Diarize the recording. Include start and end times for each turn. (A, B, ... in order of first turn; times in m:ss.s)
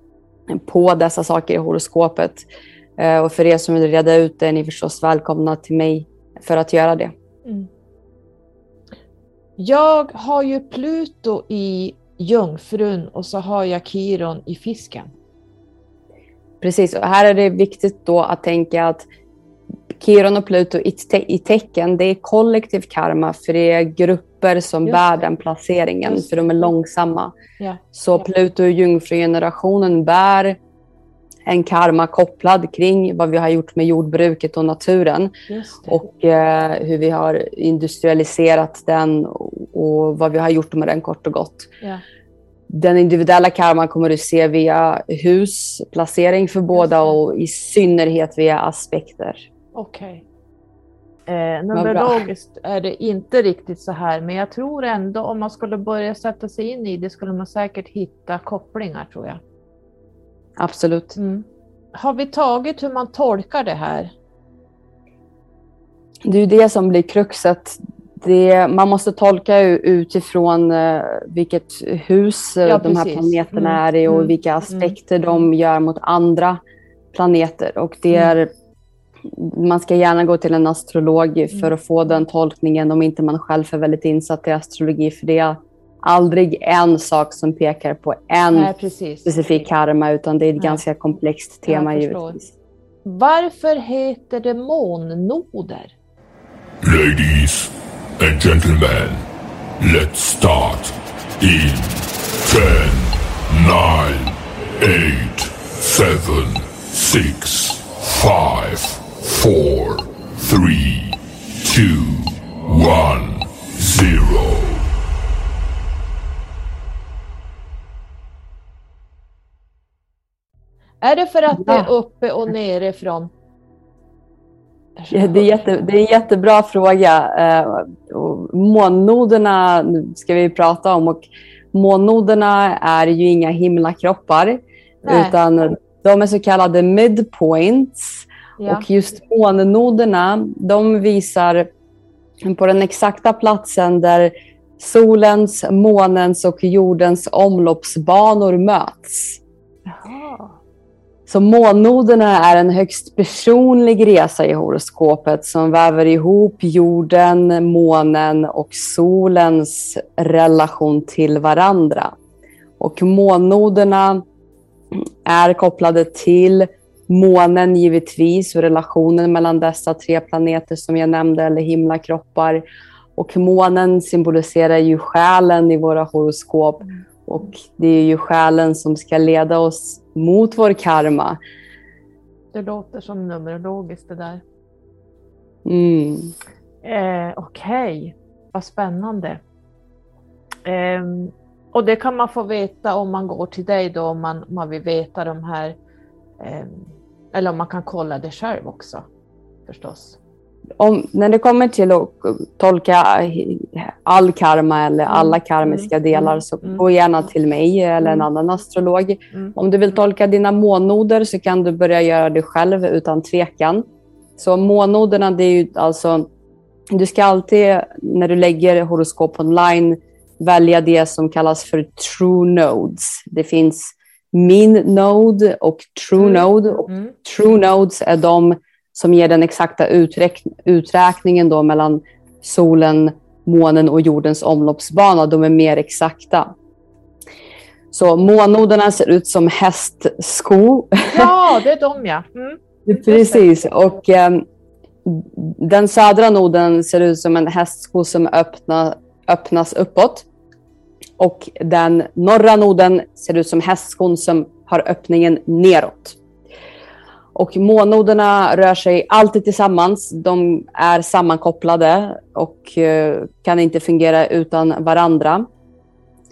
0:00.5-0:02.5 A
0:03.0-0:07.1 A
0:09.6-0:15.1 B
0:16.6-0:19.1 A
0:19.9-0:27.3 A
0:27.9-0:30.6 A
0:31.5-0:35.3 A
0:35.5-0:36.0 B
0:35.9-0:41.7 A
0:42.7-0:49.5 A
0:46.8-0:47.2 B
0:49.7-0:50.2 B
0:51.3-0:59.4 B
0:51.7-0:52.2 A
1:00.6-1:01.2 A
1:01.2-1:04.1 B
1:06.3-1:16.6 A
1:12.6-1:15.0 B
1:17.1-1:18.5 A
1:19.3-1:28.7 A
1:28.5-1:29.4 B
1:29.2-1:32.5 A
1:31.7-1:32.4 B
1:33.0-1:35.9 B
1:36.8-1:39.2 C
1:39.8-1:54.9 C
2:01.0-2:03.3 B
2:01.6-2:01.9 A
2:05.0-2:05.8 B
2:05.1-2:21.7 A
2:15.0-2:15.4 B
2:18.6-2:18.9 B
2:22.4-2:29.4 A
2:29.9-2:30.6 B
2:31.3-2:42.2 A
2:42.8-2:44.2 A
2:44.9-2:52.6 A
2:53.2-3:01.4 A
3:02.5-3:04.4 B
3:05.6-3:06.3 A
3:06.8-3:09.4 B
3:10.6-3:15.8 B
3:16.4-3:19.1 B
3:19.7-3:20.2 B
3:20.8-3:33.9 A
3:25.1-3:26.8 B
3:34.4-3:36.3 A
3:36.9-3:56.5 A
3:46.2-3:47.2 B
3:57.9-4:01.3 A
4:01.1-4:03.5 B
4:02.9-4:04.4 A
4:05.0-4:10.3 A
4:11.2-4:16.2 A
4:17.4-4:25.5 A